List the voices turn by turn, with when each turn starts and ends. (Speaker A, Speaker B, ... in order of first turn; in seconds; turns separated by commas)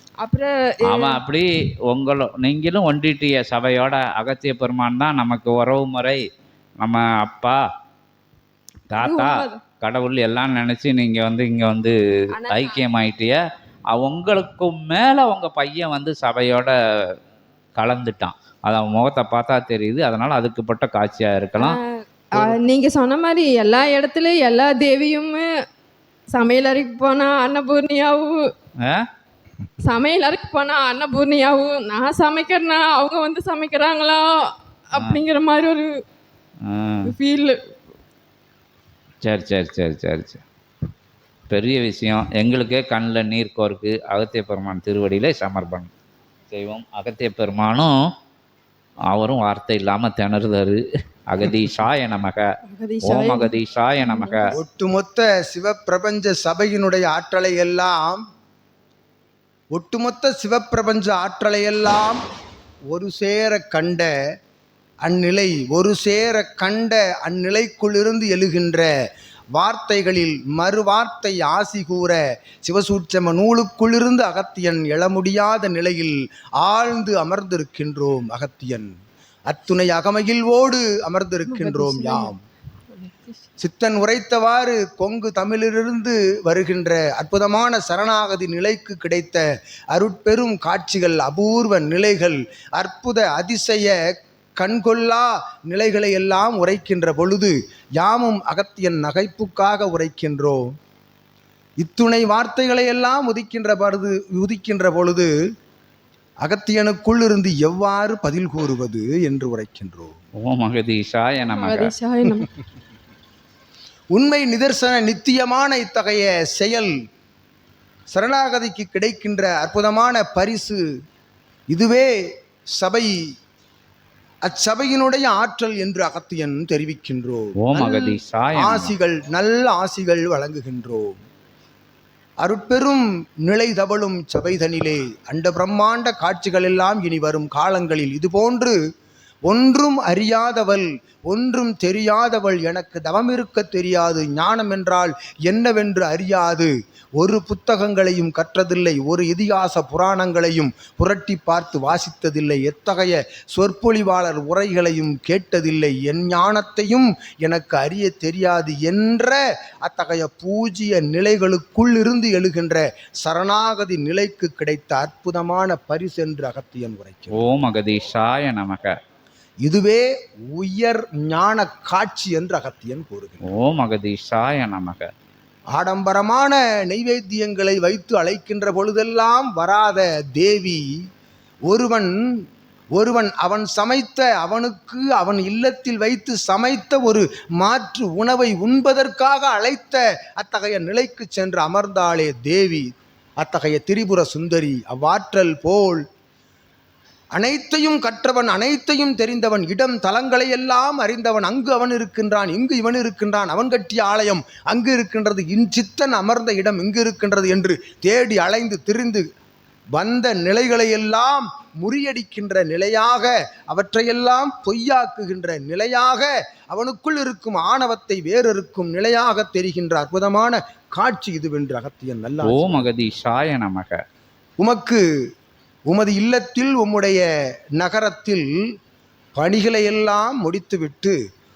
Speaker A: 0.2-1.2, Speaker B: 0.9-6.2, Speaker B: 6.8-7.6, Speaker B: 8.9-13.4, Speaker A: 8.9-9.6, Speaker A: 12.3-12.8, Speaker B: 13.9-16.7, Speaker B: 17.8-21.8, Speaker A: 21.6-21.8, Speaker A: 22.4-25.4, Speaker A: 26.3-28.4, Speaker A: 29.9-34.3, Speaker A: 34.9-35.9, Speaker B: 36.7-37.1, Speaker A: 37.0-37.6, Speaker B: 39.2-40.4, Speaker B: 41.5-45.9, Speaker B: 46.5-47.9, Speaker B: 49.1-52.4, Speaker A: 52.7-54.5, Speaker B: 53.0-54.5, Speaker C: 54.6-58.2, Speaker C: 59.7-62.2, Speaker C: 62.9-64.1, Speaker C: 65.0-68.9, Speaker C: 69.6-78.9, Speaker C: 79.5-82.4, Speaker A: 81.5-82.3, Speaker A: 82.9-83.5, Speaker C: 83.6-93.9, Speaker C: 94.6-100.6, Speaker C: 101.8-105.3, Speaker C: 106.4-110.1, Speaker B: 110.5-111.9, Speaker A: 111.4-112.5, Speaker C: 114.1-116.9, Speaker C: 118.1-120.8, Speaker C: 121.7-122.1, Speaker C: 122.8-123.2, Speaker C: 124.5-131.2, Speaker B: 127.6-128.9, Speaker C: 132.4-138.8, Speaker C: 139.5-167.5, Speaker B: 167.3-168.9, Speaker C: 169.6-173.4, Speaker B: 173.5-175.1, Speaker C: 175.8-180.8, Speaker C: 181.7-182.1, Speaker C: 183.0-192.9, Speaker C: 193.4-196.0, Speaker C: 197.3-209.3, Speaker C: 209.9-222.9, Speaker B: 222.4-224.0, Speaker C: 224.6-225.0, Speaker C: 225.9-227.2, Speaker C: 227.8-228.5, Speaker C: 229.4-231.2